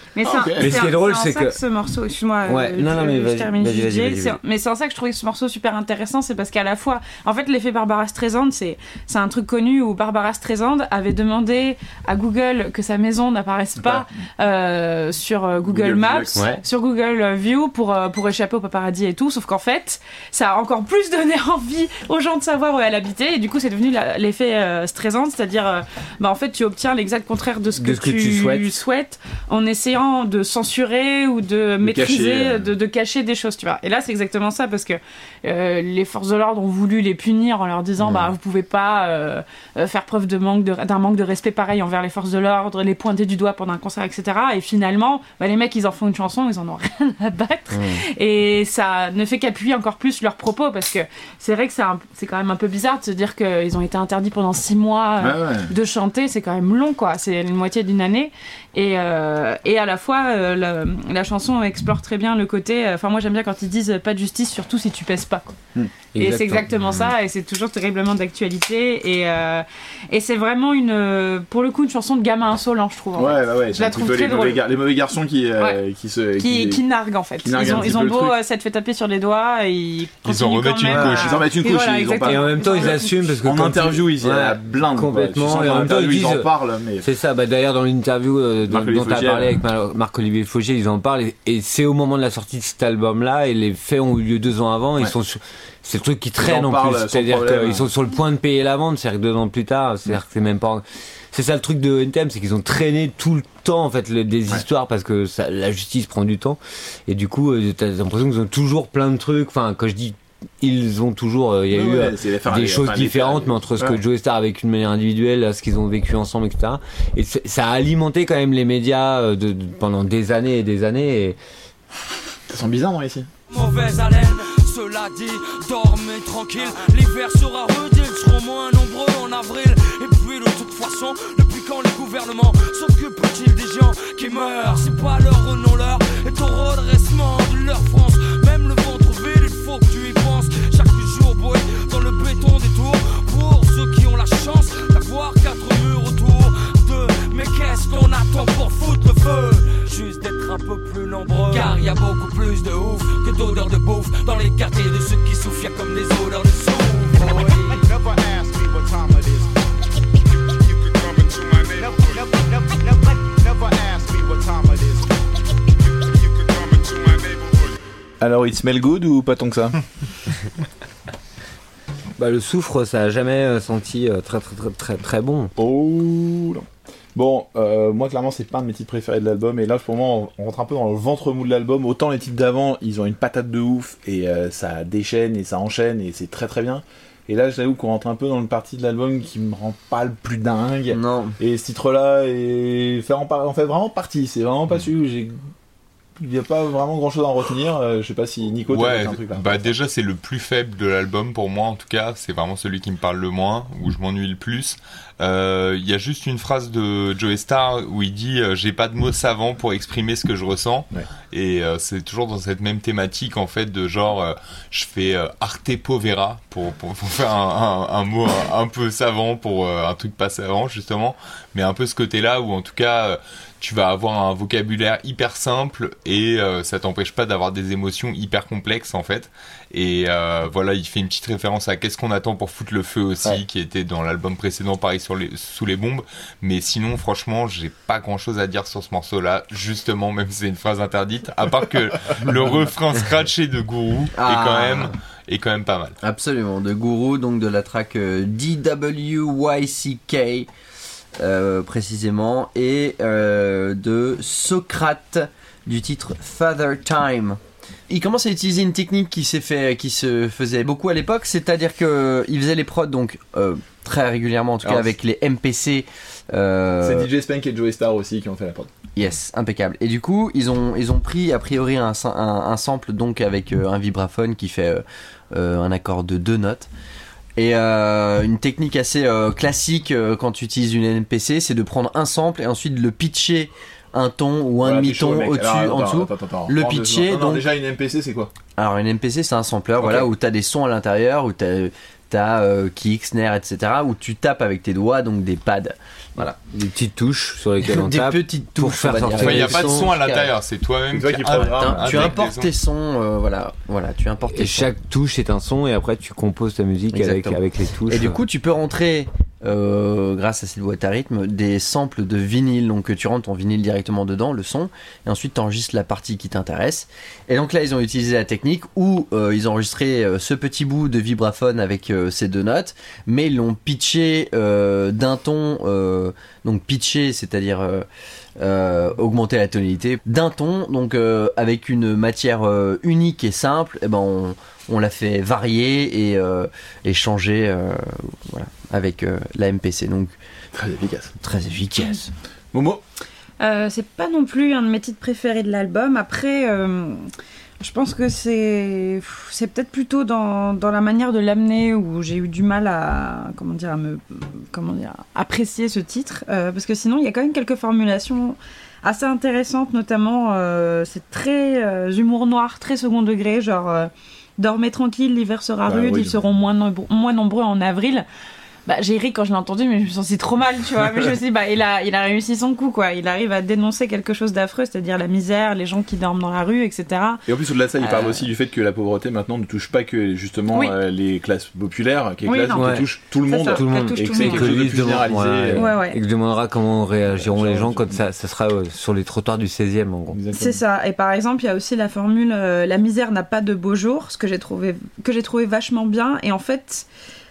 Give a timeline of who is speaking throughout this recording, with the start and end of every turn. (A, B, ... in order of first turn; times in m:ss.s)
0:00.2-1:05.6 A
0:00.2-0:00.7 B
0:00.6-0:01.6 C
0:02.4-0:04.4 C
0:13.8-0:14.0 B
0:15.6-0:16.4 B
0:27.8-0:28.8 C
0:31.8-0:32.7 B
0:47.7-0:48.0 D
0:55.2-0:55.7 B
1:06.2-1:06.7 C
1:06.2-1:14.6 A
1:13.2-1:16.8 B
1:16.4-1:23.1 A
1:17.4-1:18.4 B
1:20.2-1:21.4 E
1:20.9-1:21.2 C
1:21.2-1:22.8 B
1:22.2-1:26.5 C
1:23.4-1:27.1 B
1:27.0-2:01.4 C
1:28.7-1:29.6 B
1:36.4-1:37.9 B
1:51.7-1:54.0 B
2:02.5-2:03.3 B
2:03.5-2:37.8 F
2:37.2-2:39.5 G
2:40.6-2:45.2 G
2:46.0-2:47.7 G
2:48.2-2:49.8 B
2:52.2-2:55.5 C
2:55.6-3:15.4 B
3:10.9-3:11.4 D
3:16.2-3:19.7 B
3:18.7-4:06.0 E
4:04.2-4:04.9 D
4:06.0-4:10.5 D
4:11.2-4:27.1 D
4:24.6-4:24.9 B
4:26.8-4:28.7 B
4:29.0-4:36.7 D
4:37.4-4:47.5 D
4:44.6-4:48.3 B
4:48.6-4:56.4 D
4:49.8-4:50.1 B
4:56.5-4:59.6 C
4:57.6-5:00.3 D
4:59.2-5:02.5 E
5:00.9-5:02.2 B
5:01.3-5:04.7 D
5:04.3-5:08.2 C
5:06.9-5:27.9 D
5:28.4-5:40.2 D
5:40.5-5:41.1 B
5:41.2-5:42.1 D
5:42.5-5:42.8 B
5:43.4-5:47.1 A
5:47.6-6:08.1 A
6:05.7-6:06.2 B
6:08.7-6:17.2 A
6:17.3-6:25.7 B
6:22.2-6:24.6 A
6:22.6-6:22.8 C
6:23.5-6:30.2 C
6:25.6-6:26.0 A
6:27.1-6:28.0 B
6:30.1-6:30.6 B
6:30.4-6:36.9 A